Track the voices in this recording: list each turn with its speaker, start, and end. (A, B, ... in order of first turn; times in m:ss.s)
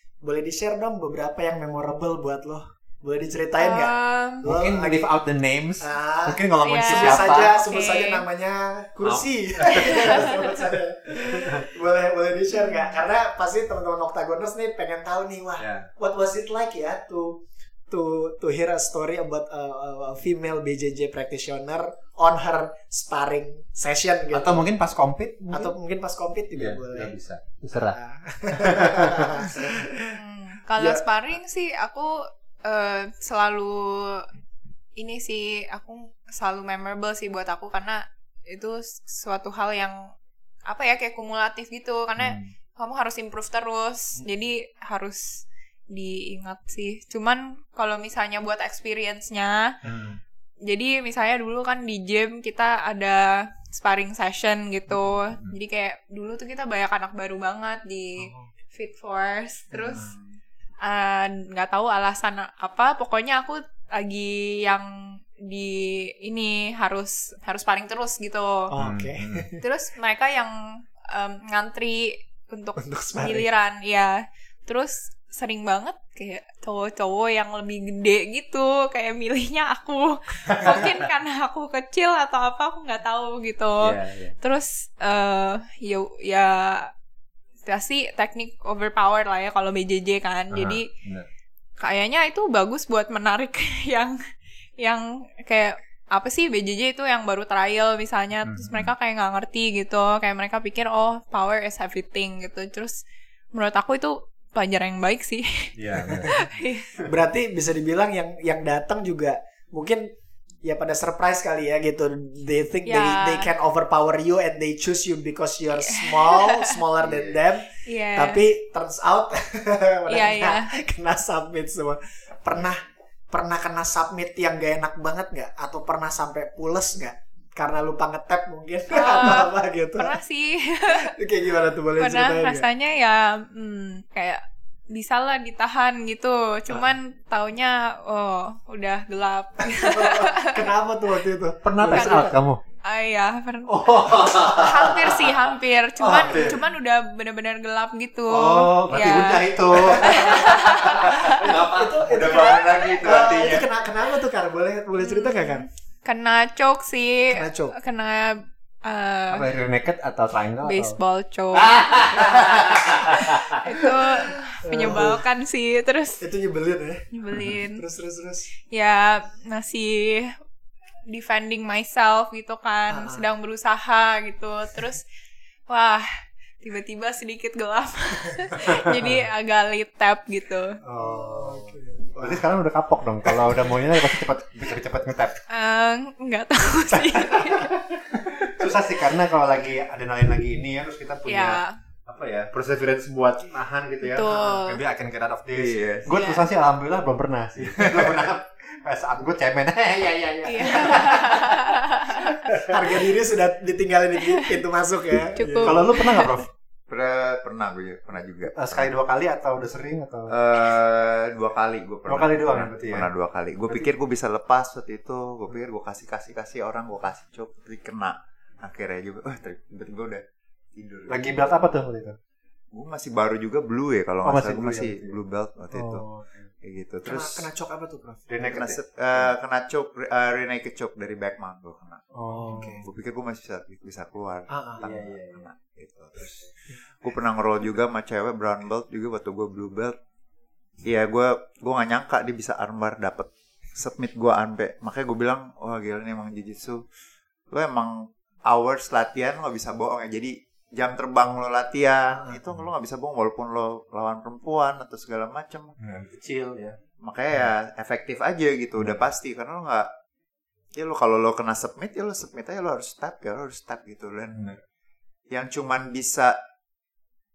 0:00.2-0:05.1 A
0:03.6-0:04.5 B
0:04.4-0:07.6 C
0:05.8-0:24.7 A
0:06.6-0:08.2 B
0:09.0-0:10.6 C
0:11.3-0:11.6 C
0:12.5-0:13.0 B
0:15.6-0:15.9 C
0:24.3-0:25.7 C
0:25.5-0:27.2 A
0:26.6-0:28.0 C
0:27.8-0:30.1 A
0:28.5-0:29.6 C
0:30.1-0:34.3 B
0:35.0-0:40.1 B
0:40.7-0:49.8 B
0:42.2-0:42.5 C
0:49.8-0:50.2 C
0:50.7-1:00.1 B
0:58.2-0:58.5 A
0:59.7-1:00.1 A
1:00.8-1:08.7 B
1:08.7-1:09.6 A
1:08.8-1:09.5 C
1:09.6-1:26.9 B
1:12.8-1:13.5 A
1:20.5-1:20.9 C
1:23.8-1:24.4 C
1:27.7-1:30.9 B
1:30.5-1:31.3 C
1:31.8-1:34.2 B
1:34.8-1:43.0 B
1:38.4-1:38.9 C
1:43.5-1:46.9 B
1:45.8-1:46.4 C
1:47.0-1:50.1 A
1:50.6-2:10.2 A
1:52.9-1:53.5 B
1:55.7-1:56.8 B
1:57.0-1:57.4 D
1:57.8-1:58.4 B
2:00.1-2:00.7 B
2:08.9-2:11.1 B
2:10.9-2:12.7 A
2:12.0-2:20.7 B
2:19.7-2:22.4 A
2:21.6-2:22.6 C
2:21.9-2:22.3 B
2:22.8-2:31.4 B
2:23.7-2:26.7 C
2:28.3-2:33.5 C
2:30.1-2:30.3 A
2:30.9-2:35.7 A
2:32.1-2:33.7 D
2:35.0-2:39.6 B
2:37.3-2:37.8 A
2:39.3-2:41.0 C
2:40.6-2:46.2 B
2:41.5-2:43.6 C
2:44.6-2:45.2 A
2:46.2-2:48.5 A
2:47.1-2:47.8 B
2:48.7-2:50.4 B
2:51.1-2:55.0 B
2:52.9-2:53.3 A
2:55.7-2:56.1 B
2:56.6-3:00.8 B
3:00.8-3:05.4 C
3:01.0-3:02.5 A
3:05.5-3:07.8 B
3:08.2-3:23.0 C
3:11.3-3:11.8 B
3:14.0-3:14.8 B
3:15.6-3:16.1 D
3:16.1-3:16.4 B
3:17.7-3:18.3 D
3:20.4-3:22.6 B
3:22.7-3:25.9 A
3:24.2-3:24.5 B
3:25.4-3:26.4 B
3:25.6-3:26.5 C
3:26.9-3:28.9 D
3:28.5-3:30.3 C
3:30.3-3:40.2 D
3:32.1-3:33.1 C
3:40.8-3:41.4 D
3:41.1-3:42.2 C
3:42.7-3:46.0 D
3:44.2-3:45.2 C
3:45.7-3:46.5 C
3:46.6-3:47.5 D
3:47.0-3:48.3 A
3:48.3-3:49.3 C
3:48.4-3:52.0 D
3:52.1-3:52.8 C
3:52.4-3:52.9 A
3:52.6-4:00.0 D
3:54.5-3:54.8 A
3:54.8-3:55.5 C
3:56.2-3:56.5 C
4:00.8-4:06.8 D
4:07.5-4:15.8 D
4:15.8-4:16.8 C
4:17.0-4:19.9 D
4:20.8-4:24.6 D
4:25.3-4:26.4 D